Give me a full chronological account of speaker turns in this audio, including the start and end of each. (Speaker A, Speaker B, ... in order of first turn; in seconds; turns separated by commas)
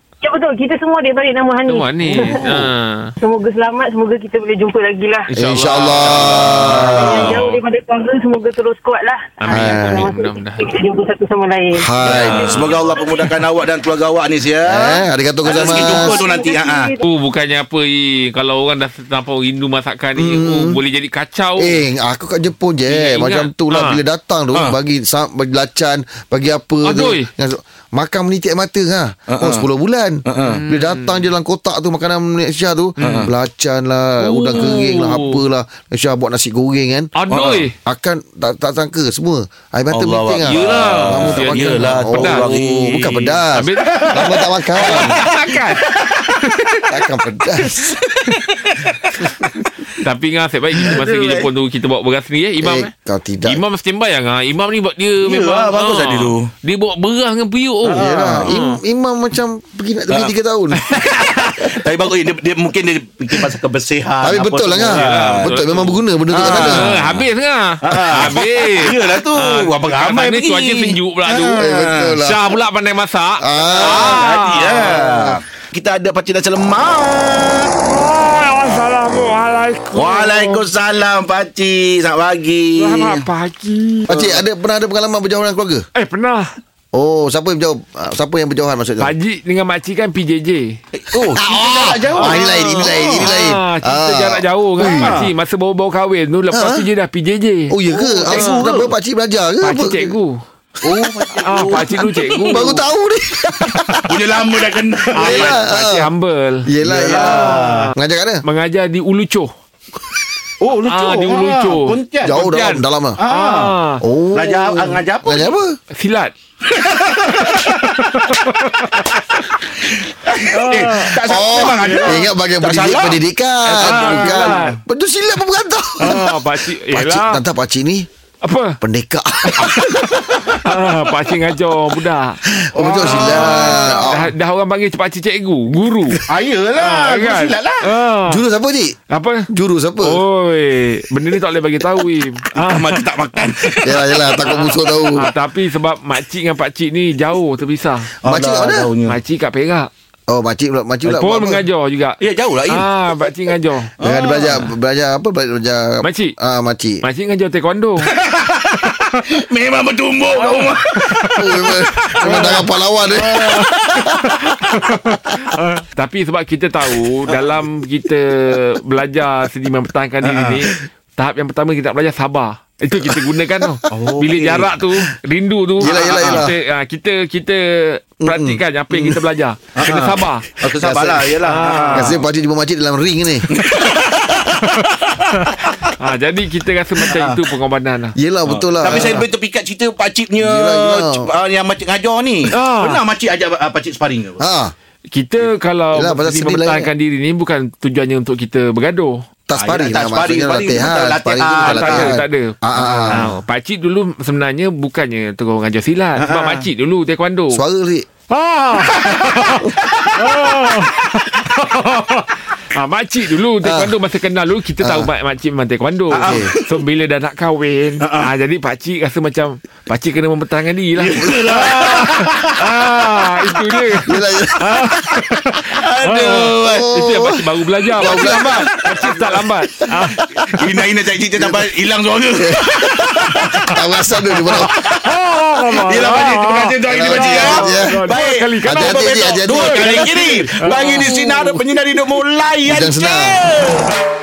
Speaker A: 0.2-2.7, Speaker B: 1.7-3.1, Speaker A: 3.2-5.3, Speaker B: 5.3-7.6, Speaker C: 5.4-7.4, Speaker A: 6.8-13.3, Speaker B: 9.4-10.7, Speaker C: 9.5-10.1, Speaker C: 11.8-12.7, Speaker B: 12.0-12.8, Speaker D: 12.0-16.9, Speaker C: 14.7-16.2, Speaker A: 15.5-17.0, Speaker B: 17.0-21.8, Speaker C: 20.2-20.8, Speaker C: 21.6-37.1, Speaker B: 22.9-24.0, Speaker D: 24.5-24.8, Speaker B: 26.9-27.3, Speaker D: 29.3-29.7, Speaker D: 30.3-30.6, Speaker B: 30.4-31.3, Speaker B: 33.0-33.3, Speaker D: 33.0-33.3, Speaker B: 34.2-35.4, Speaker B: 37.2-37.8, Speaker D: 37.3-37.7, Speaker C: 37.9-45.2, Speaker D: 39.9-46.1, Speaker B: 40.4-42.7, Speaker B: 43.5-44.2, Speaker B: 44.7-47.0, Speaker C: 46.9-48.0, Speaker D: 47.8-49.0, Speaker B: 49.2-58.8, Speaker D: 50.8-51.5, Speaker C: 52.6-53.6, Speaker D: 55.2-56.5, Speaker D: 57.8-58.5, Speaker C: 58.0-60.9, Speaker B: 60.8-61.7, Speaker D: 61.0-65.6, Speaker C: 64.2-67.0, Speaker B: 64.8-71.7, Speaker D: 66.3-67.2, Speaker D: 67.8-72.1, Speaker C: 71.6-72.4, Speaker B: 72.2-75.2, Speaker C: 73.4-74.3, Speaker D: 73.7-77.8, Speaker C: 75.0-75.4, Speaker B: 77.9-80.7, Speaker D: 79.9-83.2, Speaker B: 82.8-84.4, Speaker C: 84.1-85.9, Speaker D: 84.1-84.4, Speaker B: 86.0-86.5, Speaker C: 86.9-89.1, Speaker B: 89.0-90.8, Speaker D: 91.0-93.3, Speaker C: 91.1-95.3, Speaker B: 92.1-98.8, Speaker D: 94.8-95.3, Speaker C: 96.5-96.9, Speaker C: 97.7-100.2, Speaker D: 97.9-98.9, Speaker B: 99.6-100.4, Speaker D: 100.8-102.7, Speaker C: 100.8-104.2, Speaker B: 101.3-102.8, Speaker B: 103.7-104.0, Speaker D: 104.1-105.6, Speaker B: 105.1-109.5, Speaker C: 105.2-106.1, Speaker C: 106.7-108.4, Speaker D: 106.8-107.9, Speaker D: 110.6-112.4, Speaker B: 110.8-114.0, Speaker C: 112.2-113.2, Speaker D: 113.2-113.8, Speaker C: 114.0-115.7, Speaker D: 114.3-115.6, Speaker B: 115.9-116.3, Speaker D: 116.7-117.9, Speaker B: 117.3-119.4, Speaker D: 119.8-124.8, Speaker B: 120.4-122.3, Speaker C: 121.2-128.1, Speaker B: 123.7-124.8, Speaker B: 126.0-127.4, Speaker B: 128.4-128.8, Speaker C: 128.8-130.0, Speaker B: 129.5-136.2, Speaker C: 132.6-134.3, Speaker D: 132.8-134.0, Speaker D: 136.3-137.8, Speaker B: 136.8-138.4, Speaker C: 138.3-139.0, Speaker B: 139.1-139.5, Speaker C: 139.5-140.2, Speaker B: 140.0-143.9, Speaker D: 142.5-144.2, Speaker C: 143.8-145.3, Speaker B: 144.4-148.1, Speaker D: 148.2-149.2, Speaker C: 148.2-148.9, Speaker B: 149.1-149.9, Speaker C: 150.3-151.6, Speaker B: 151.1-153.9, Speaker D: 152.2-152.9, Speaker C: 154.0-157.0, Speaker D: 154.0-154.7, Speaker B: 156.0-156.3, Speaker B: 157.0-158.1, Speaker D: 158.0-162.7, Speaker B: 160.3-161.4, Speaker C: 161.4-163.6, Speaker B: 162.2-162.7, Speaker D: 163.2-164.6, Speaker B: 163.2-180.6, Speaker D: 170.2-170.7, Speaker D: 173.9-174.9, Speaker D: 175.8-176.5, Speaker C: 175.8-176.6, Speaker C: 178.2-179.2, Speaker D: 179.8-182.2, Speaker C: 180.8-183.5, Speaker B: 181.4-182.2, Speaker D: 183.5-185.7, Speaker B: 186.0-188.2, Speaker D: 187.1-187.4, Speaker C: 188.2-189.3, Speaker D: 188.5-194.4, Speaker C: 190.4-191.3, Speaker B: 192.5-193.0, Speaker C: 194.4-194.7, Speaker B: 195.1-199.2, Speaker C: 195.9-196.9, Speaker C: 199.5-203.3, Speaker D: 199.6-202.2, Speaker B: 201.6-207.6, Speaker D: 206.2-206.7, Speaker C: 207.5-208.1, Speaker B: 208.3-230.2, Speaker D: 209.0-210.9, Speaker C: 213.6-213.9, Speaker C: 214.8-215.1, Speaker D: 216.1-216.8, Speaker C: 216.1-216.5, Speaker D: 218.0-218.3, Speaker D: 221.0-222.5, Speaker C: 224.0-224.8, Speaker D: 224.8-226.8, Speaker C: 226.6-227.4, Speaker D: 227.9-229.3, Speaker C: 227.9-229.1, Speaker C: 230.0-231.7, Speaker D: 230.5-243.9, Speaker C: 232.3-233.0, Speaker C: 233.6-234.8, Speaker B: 234.9-241.6, Speaker C: 236.8-240.4, Speaker C: 242.7-243.5